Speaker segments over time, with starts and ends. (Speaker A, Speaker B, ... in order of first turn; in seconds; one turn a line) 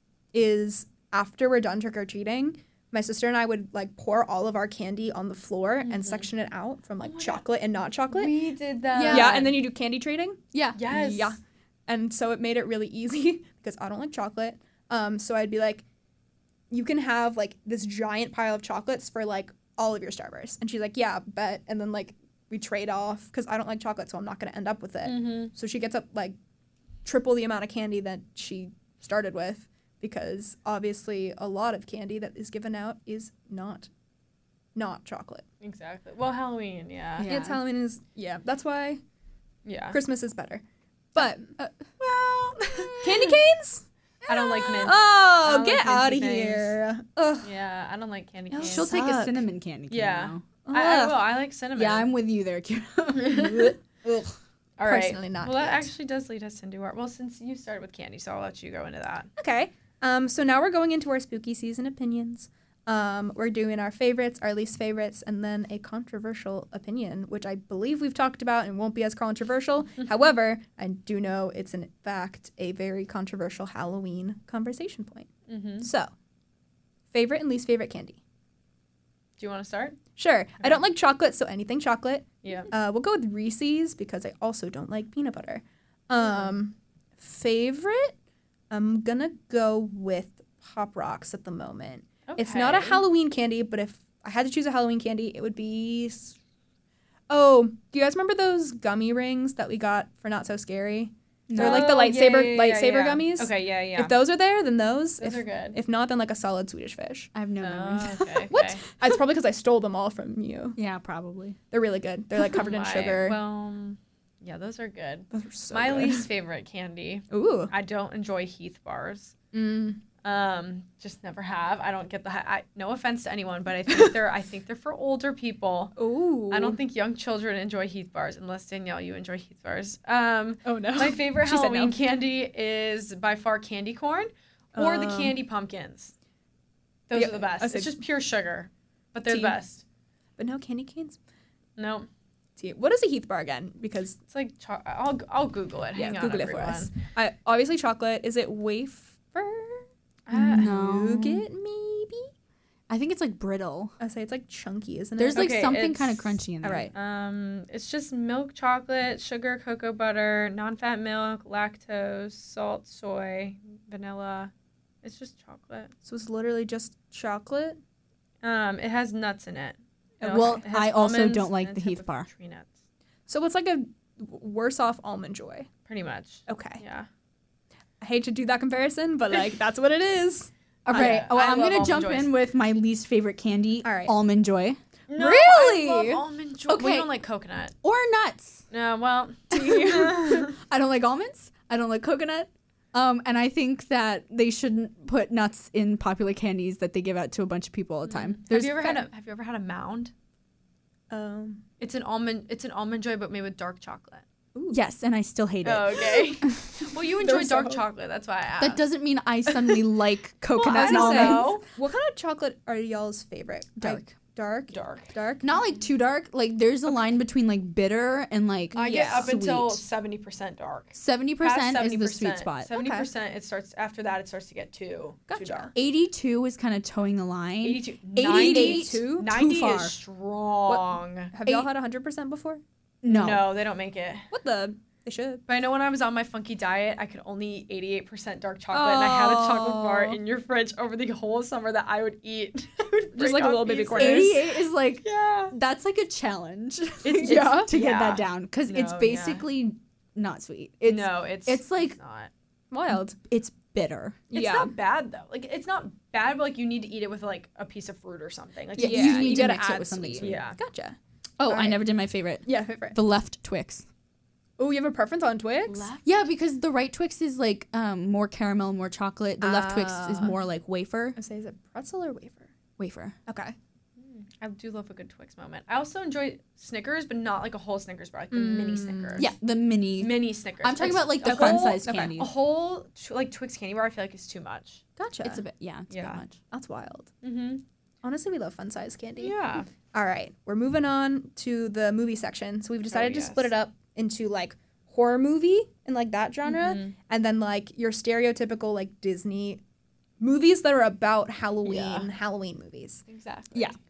Speaker A: 0.3-8.4
Speaker B: 5.8-6.3
Speaker B: 7.0-7.4
Speaker B: 8.1-9.6
Speaker C: 8.9-9.5
Speaker A: 9.0-15.8
Speaker B: 10.8-11.3
Speaker A: 16.7-26.4
Speaker B: 25.0-25.5
Speaker A: 27.0-33.9
Speaker A: 34.8-35.4
Speaker B: 35.6-37.3
Speaker C: 37.2-37.6
Speaker A: 37.2-39.0
Speaker B: 39.6-40.0
Speaker A: 39.9-40.6
Speaker A: 41.1-41.6
Speaker C: 41.2-43.4
Speaker A: 43.0-43.9
Speaker C: 44.3-44.8
Speaker B: 44.3-46.8
Speaker A: 44.5-47.5
Speaker B: 47.4-48.9
Speaker A: 48.5-49.4
Speaker C: 48.6-50.5
Speaker B: 49.9-52.1
Speaker A: 50.6-51.2
Speaker C: 51.8-54.4
Speaker B: 53.1-53.8
Speaker B: 54.8-59.3
Speaker A: 54.8-55.9
Speaker A: 59.4-75.3
Speaker B: 75.5-75.9
Speaker A: 75.8-76.1
Speaker A: 77.1-78.2
Speaker B: 79.4-80.0
Speaker A: 80.2-88.2
Speaker B: 80.6-80.8
Speaker B: 82.5-82.7
Speaker B: 86.2-86.5
Speaker A: 88.7-96.4
Speaker B: 92.3-93.0
Speaker A: 97.3-107.3
Speaker C: 101.5-101.9
Speaker B: 101.6-104.2
Speaker B: 105.2-105.8
Speaker C: 107.3-108.5
Speaker B: 107.6-108.8
Speaker A: 108.5-110.8
Speaker C: 110.8-111.6
Speaker A: 111.7-113.4
Speaker B: 112.5-119.3
Speaker A: 115.3-116.3
Speaker A: 117.3-117.7
Speaker A: 119.5-120.0
Speaker B: 120.2-125.9
Speaker A: 126.0-126.8
Speaker B: 126.5-136.1
Speaker A: 130.7-132.0
Speaker A: 134.7-135.4
Speaker B: 137.1-139.8
Speaker A: 137.1-138.0
Speaker A: 139.3-139.6
Speaker A: 140.4-141.2
Speaker B: 141.8-142.1
Speaker A: 142.6-144.2
Speaker B: 144.3-146.9
Speaker A: 145.9-149.9
Speaker B: 150.3-150.7
Speaker C: 150.3-151.4
Speaker A: 150.4-152.3
Speaker C: 152.9-154.0
Speaker A: 154.0-155.5
Speaker C: 155.2-156.9
Speaker B: 155.3-156.4
Speaker A: 156.6-156.9
Speaker B: 156.9-164.5
Speaker B: 165.0-165.9
Speaker A: 166.1-167.8
Speaker B: 168.4-172.7
Speaker A: 170.2-170.6
Speaker C: 170.3-172.3
Speaker A: 173.3-175.7
Speaker B: 175.9-177.1
Speaker A: 176.5-176.8
Speaker A: 178.0-181.3
Speaker C: 180.9-184.8
Speaker B: 180.9-182.3
Speaker A: 183.8-184.1
Speaker B: 185.1-187.7
Speaker A: 185.2-186.2
Speaker C: 186.7-187.1
Speaker C: 187.8-188.7
Speaker B: 188.7-190.5
Speaker C: 189.5-199.0
Speaker B: 198.1-200.1
Speaker A: 201.1-201.6
Speaker B: 201.8-204.2
Speaker A: 204.6-204.8
Speaker C: 204.7-206.7
Speaker B: 205.6-208.8
Speaker A: 207.2-207.8
Speaker C: 208.6-211.6
Speaker B: 209.5-209.8
Speaker B: 210.5-211.7
Speaker A: 210.7-215.5
Speaker C: 213.8-214.1
Speaker B: 214.7-215.1
Speaker C: 215.4-219.8
Speaker B: 218.8-225.7
Speaker A: 218.8-219.4
Speaker C: 220.9-222.7
Speaker A: 222.7-223.1
Speaker A: 225.3-225.7
Speaker C: 225.8-229.9
Speaker B: 227.6-231.3
Speaker A: 228.2-229.3
Speaker A: 230.7-232.6
Speaker C: 233.0-233.5
Speaker B: 233.1-234.3
Speaker A: 234.3-235.4
Speaker B: 235.5-244.4
Speaker A: 238.7-240.2
Speaker A: 243.2-244.4
Speaker C: 244.0-252.0
Speaker B: 245.0-245.6
Speaker A: 247.1-247.7
Speaker B: 247.2-249.4
Speaker B: 250.9-252.3
Speaker A: 252.7-253.2
Speaker C: 252.9-254.2
Speaker A: 254.3-254.7
Speaker B: 254.3-259.6
Speaker C: 258.8-260.4
Speaker A: 258.8-261.8
Speaker B: 260.2-260.6
Speaker C: 261.4-263.9
Speaker A: 262.4-263.0
Speaker A: 264.6-265.9
Speaker B: 265.7-266.1
Speaker C: 266.0-271.2
Speaker A: 269.4-270.4
Speaker A: 271.2-272.5
Speaker C: 272.8-273.2
Speaker A: 273.3-273.6
Speaker B: 274.0-279.3
Speaker A: 278.3-279.3
Speaker C: 279.2-282.3
Speaker B: 280.0-284.8
Speaker A: 281.2-282.1
Speaker A: 285.0-285.4
Speaker C: 285.2-286.4
Speaker B: 285.9-286.2
Speaker A: 286.5-287.1
Speaker B: 287.2-287.6
Speaker A: 288.0-289.4
Speaker B: 289.2-289.7
Speaker A: 289.9-299.6
Speaker B: 292.9-293.5
Speaker B: 296.4-296.9
Speaker A: 300.2-303.0
Speaker B: 301.6-302.1
Speaker B: 303.1-303.8